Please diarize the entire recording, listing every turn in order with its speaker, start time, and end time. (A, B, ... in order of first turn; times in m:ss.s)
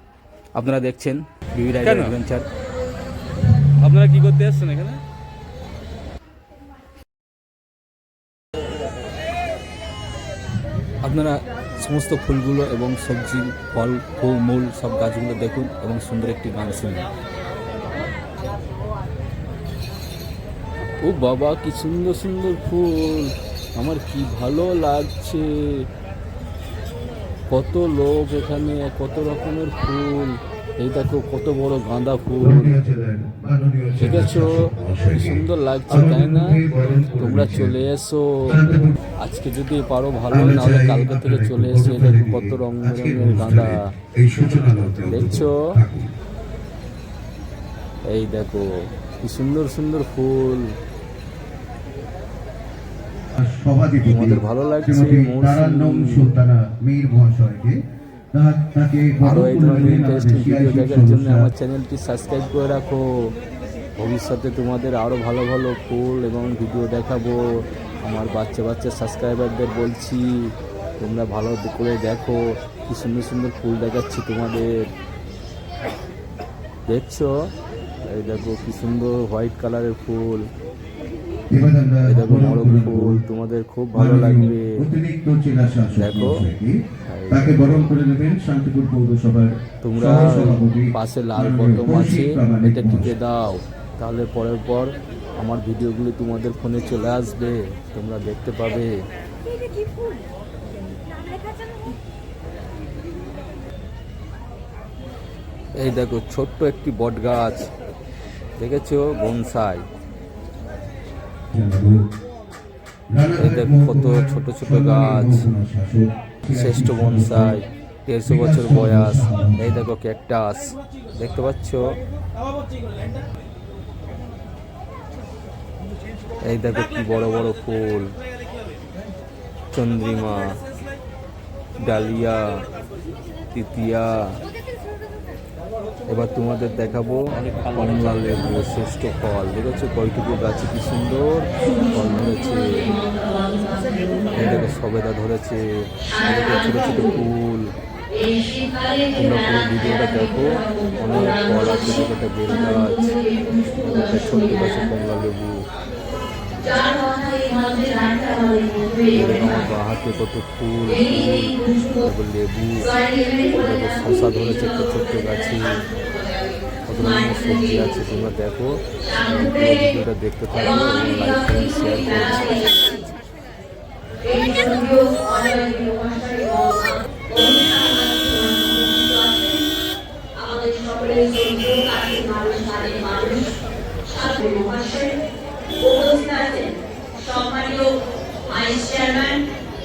0:00.5-0:02.4 A
0:03.8-0:05.0 A
0:11.0-0:17.0 A
0:21.0-0:25.9 A
0:27.5-0:32.8 A
0:32.4-0:37.8 B
0:34.0-0:36.6 A
0:37.1-0:43.9 A
0:38.5-0:39.0 B
0:40.3-0:46.1 B
0:45.0-0:45.8 A
0:48.1-0:50.8 A
0:53.4-0:57.8 B
0:54.0-0:56.3 A
0:58.3-1:01.5 B
0:59.2-1:03.3 A
1:04.0-1:14.9 A
1:16.9-1:17.5 A
1:18.0-1:20.5 A
1:21.5-1:23.2 B
1:22.0-1:24.8 A
1:23.9-1:26.8 B
1:25.9-1:26.4 A
1:27.1-1:27.5 A
1:27.3-1:33.1 B
1:29.8-1:38.9 A
1:45.8-1:47.7 A
1:48.6-1:49.8 A
1:51.5-1:52.0 B
1:53.1-1:57.6 B
1:53.4-1:55.4 A
1:56.5-2:02.0 A
1:58.3-1:59.8 B
2:06.4-2:08.1 A
2:09.7-2:10.6 A
2:11.8-2:12.6 A
2:13.5-2:14.4 A
2:16.1-2:23.0 A
2:23.2-2:24.2 C
2:24.3-2:27.7 A
2:28.2-2:28.9 C
2:29.1-2:35.6 A
2:36.6-2:39.1 C
2:39.1-2:45.9 A
2:46.9-2:52.7 A
2:54.2-2:59.7 C
3:00.4-3:05.2 C
3:05.8-3:09.5 C